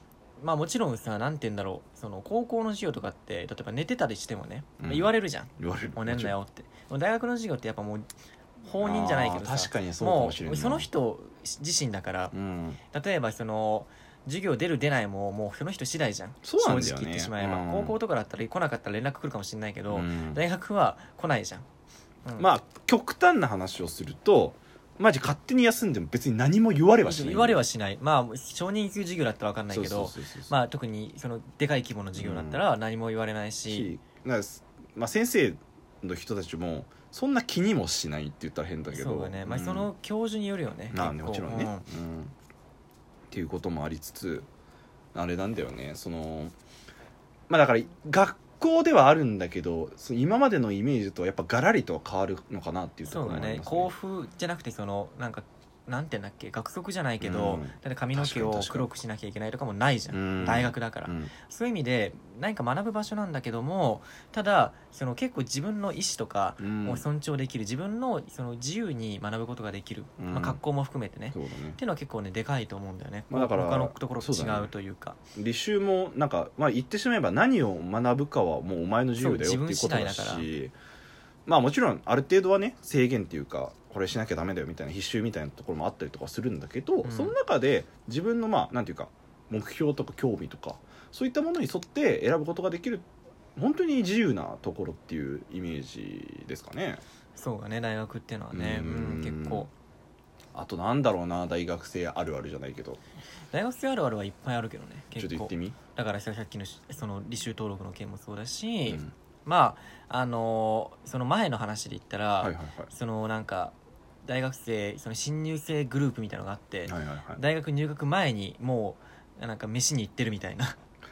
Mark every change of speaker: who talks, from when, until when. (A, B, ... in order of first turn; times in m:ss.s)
0:00.4-0:08.1 A
0:04.8-0:06.4 B
0:08.6-0:12.3 A
0:08.8-0:10.9 B
0:12.3-0:12.8 B
0:12.9-0:21.7 A
0:16.4-0:18.0 B
0:19.9-0:20.4 B
0:22.4-0:27.6 B
0:27.0-0:33.9 A
0:29.7-0:30.5 B
0:32.2-0:32.6 B
0:33.7-0:39.9 B
0:38.9-0:41.9 A
0:40.9-0:42.3 B
0:43.3-0:44.5 B
0:45.1-0:46.5 B
0:47.5-0:53.9 B
0:53.0-1:15.2 A
0:57.2-0:58.9 B
1:00.1-1:01.3 B
1:06.6-1:07.0 B
1:10.2-1:10.6 B
1:11.3-1:11.8 B
1:13.3-1:14.7 B
1:15.4-1:20.7 B
1:19.2-1:20.5 A
1:21.5-1:33.0 B
1:27.0-1:27.4 A
1:33.6-1:37.0 B
1:37.4-1:39.7 A
1:38.5-1:39.7 B
1:40.5-1:43.0 B
1:43.5-2:00.8 A
1:45.2-1:45.8 B
1:48.9-1:49.1 B
1:52.4-1:52.9 B
1:56.9-1:57.4 B